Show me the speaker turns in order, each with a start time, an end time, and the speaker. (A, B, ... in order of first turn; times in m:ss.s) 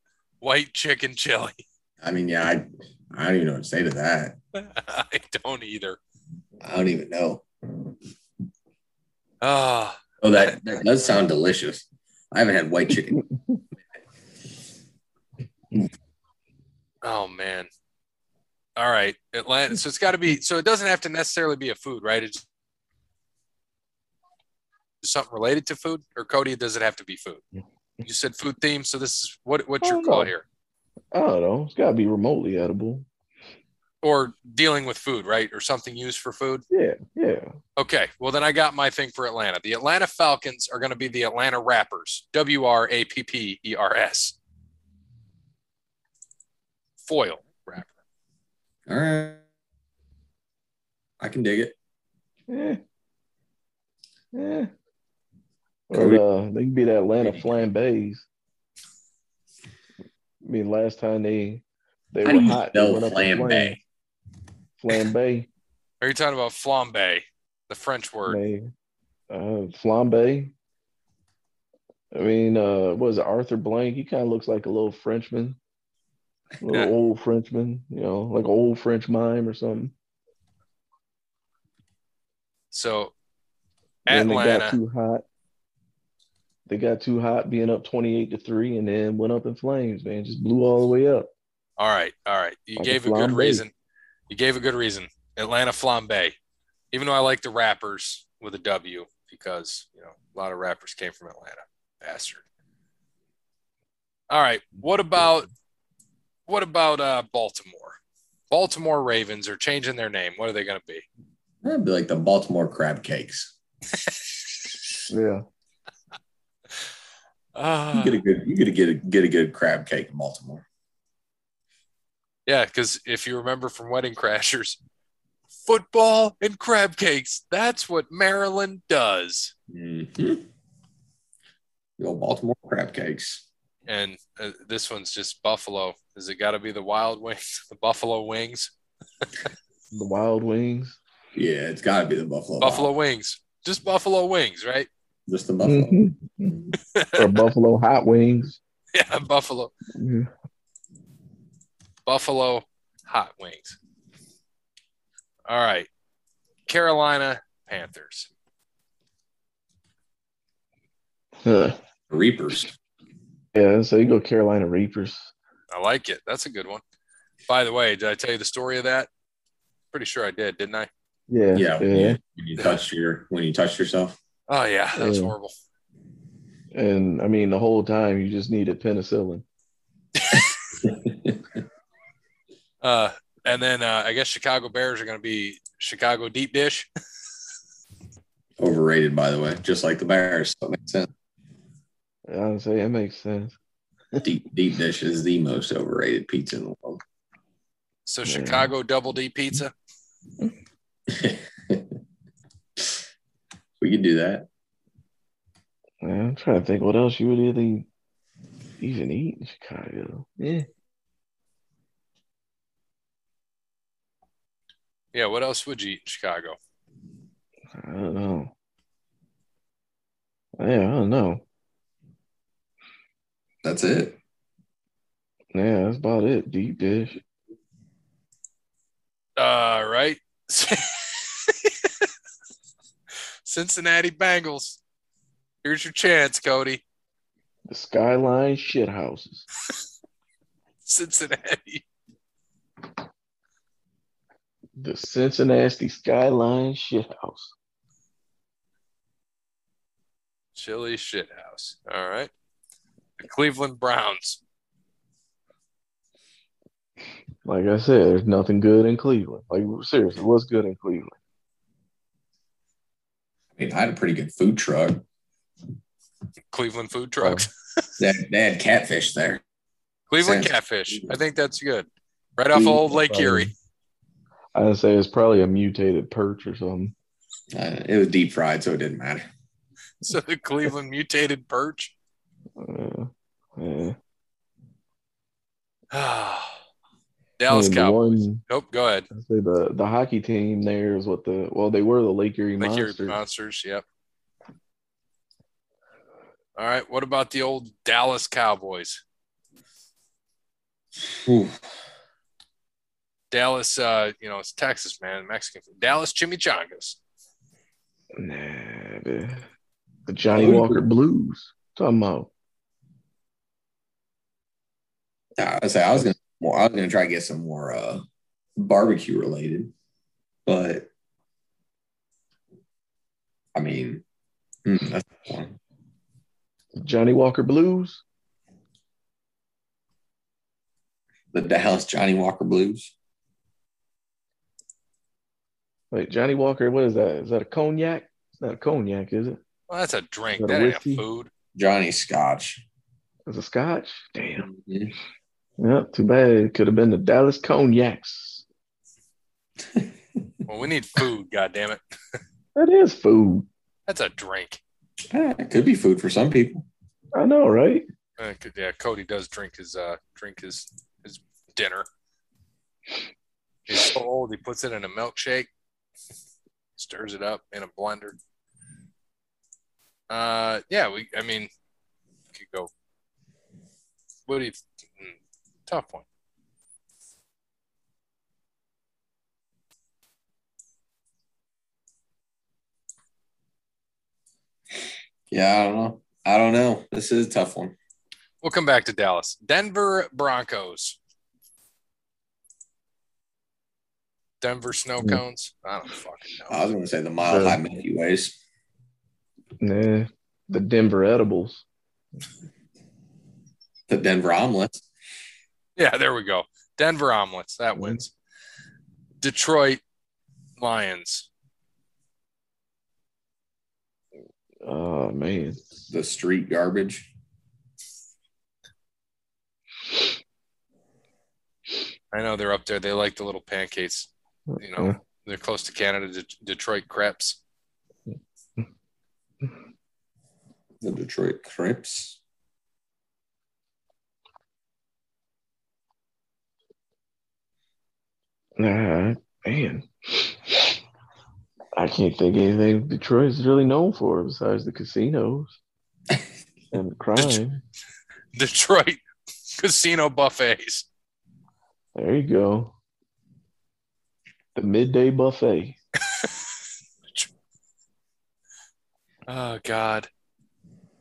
0:00.4-0:01.6 A
0:02.0-0:04.4 B
0:04.6-0:06.0 A
0:06.6-0:07.5 B
0:09.4-0:10.1 A
0:10.2-0:13.2 B
0:17.0-0:17.7 A
0:18.8-0:22.4 A
0:25.0-0:27.4 A
0:28.0-0:30.4 A
0:29.8-0:30.3 C
0:31.1-0:33.1 C
0:34.0-0:36.6 A
0:36.7-0:37.5 C
0:37.8-0:44.4 A
0:47.0-0:47.9 A
0:48.9-0:49.4 B
0:51.2-0:51.7 B
0:52.5-0:52.8 C
0:54.3-0:54.7 C
0:55.9-0:58.3 C
0:55.9-0:56.2 B
0:57.2-0:57.5 B
1:00.4-1:03.8 C
1:02.2-1:03.8 B
1:04.8-1:05.5 C
1:06.0-1:08.4 A
1:08.3-1:08.7 C
1:09.3-1:10.5 C
1:12.1-1:15.6 C
1:16.6-1:19.9 C
1:22.7-1:23.1 A
1:24.1-1:24.8 A
1:24.1-1:25.2 C
1:26.7-1:31.3 C
1:31.8-1:33.7 A
1:32.8-1:33.6 C
1:34.3-1:36.4 A
1:36.9-1:42.4 A
1:44.3-1:45.5 A
1:46.5-1:48.0 A
1:48.5-1:51.1 A
1:51.6-1:53.5 B
1:55.1-1:55.4 C
1:57.6-1:58.2 A
1:57.9-2:00.6 B
2:02.5-2:04.8 A
2:05.6-2:09.5 A
2:09.7-2:10.4 B
2:12.0-2:13.4 B
2:13.9-2:18.7 A
2:19.9-2:21.0 C
2:21.3-2:22.9 B
2:22.6-2:24.9 A
2:25.3-2:26.8 B
2:25.6-2:26.5 C
2:26.9-2:27.3 A
2:27.2-2:28.6 C
2:28.9-2:29.7 A
2:29.9-2:30.3 C
2:32.1-2:33.8 A
2:35.5-2:35.9 A
2:36.7-2:38.3 A
2:41.4-2:41.8 C
2:42.1-2:42.7 B
2:43.5-2:45.3 C
2:45.7-2:46.8 A
2:47.5-2:49.1 A
2:49.9-2:50.9 A
2:51.3-2:52.2 C
2:51.5-2:54.2 B
2:54.5-2:55.5 A
2:55.0-2:55.4 C
2:56.7-2:59.4 C
3:00.8-3:01.4 B
3:02.8-3:06.9 A
3:08.6-3:11.1 B
3:12.3-3:13.6 C
3:14.2-3:17.0 B
3:18.1-3:19.7 A
3:18.3-3:18.7 C
3:21.1-3:21.8 B
3:23.8-3:24.5 B
3:26.0-3:27.9 C
3:28.8-3:30.7 C
3:35.1-3:36.6 A
3:37.7-3:38.5 C
3:40.6-3:41.4 C
3:43.6-3:44.2 B
3:45.5-3:47.2 C
3:49.4-3:51.9 A
3:53.5-3:54.8 A
3:55.6-3:56.8 A
3:57.7-3:59.5 C
4:00.8-4:01.8 A
4:04.8-4:07.5 C
4:10.6-4:12.3 A
4:13.2-4:14.4 A
4:17.4-4:21.1 C
4:23.6-4:25.0 B
4:26.5-4:27.5 A
4:27.2-4:27.5 C
4:28.0-4:29.4 B
4:30.1-4:33.5 A
4:30.2-4:31.2 B
4:32.5-4:33.5 C
4:34.5-4:36.9 C
4:37.5-4:39.3 B
4:40.0-4:41.9 A
4:42.6-4:44.0 C
4:45.9-4:46.6 A
4:47.4-4:49.1 A
4:47.5-4:48.4 C
4:49.1-4:53.2 C
4:52.6-4:53.8 A
4:56.6-4:59.0 A
5:01.0-5:01.6 B
5:03.3-5:07.0 A
5:08.2-5:09.5 C
5:10.1-5:12.3 C
5:10.3-5:10.8 B
5:15.4-5:18.0 B
5:18.6-5:19.7 B
5:20.5-5:20.9 B
5:23.6-5:24.0 B
5:24.6-5:25.6 B
5:26.8-5:28.0 C
5:31.3-5:32.9 B
5:35.9-5:39.4 C
5:39.7-5:41.3 A
5:40.4-5:41.0 C
5:41.6-5:42.6 B
5:43.3-5:44.5 C
5:44.4-5:44.9 B
5:45.6-5:48.4 C
5:50.5-5:51.8 A
5:52.6-5:53.5 C
5:53.9-5:54.6 A
5:55.1-5:56.7 B
5:57.1-5:57.8 C
5:58.2-6:01.9 A
6:03.7-6:05.5 A
6:06.8-6:08.2 A
6:10.1-6:11.5 A
6:12.3-6:12.7 A
6:14.3-6:16.0 A
6:25.3-6:27.8 B
6:28.4-6:31.0 A
6:34.4-6:36.6 A
6:36.5-6:38.3 B
6:37.2-6:37.6 C
6:39.6-6:41.6 C
6:43.9-6:44.8 B
6:45.8-6:48.1 A
6:47.8-6:48.0 C
6:49.2-6:49.8 A
6:50.6-6:51.3 A
6:54.6-6:55.6 C
6:55.9-6:57.1 B
7:02.1-7:07.4 A
7:04.5-7:05.0 C
7:08.1-7:08.6 C
7:10.8-7:12.2 B
7:18.6-7:20.8 C
7:21.8-7:25.6 C
7:26.7-7:27.6 C
7:28.4-7:29.0 A
7:29.6-7:30.9 A
7:32.0-7:32.7 C
7:34.6-7:35.8 C
7:39.3-7:40.1 A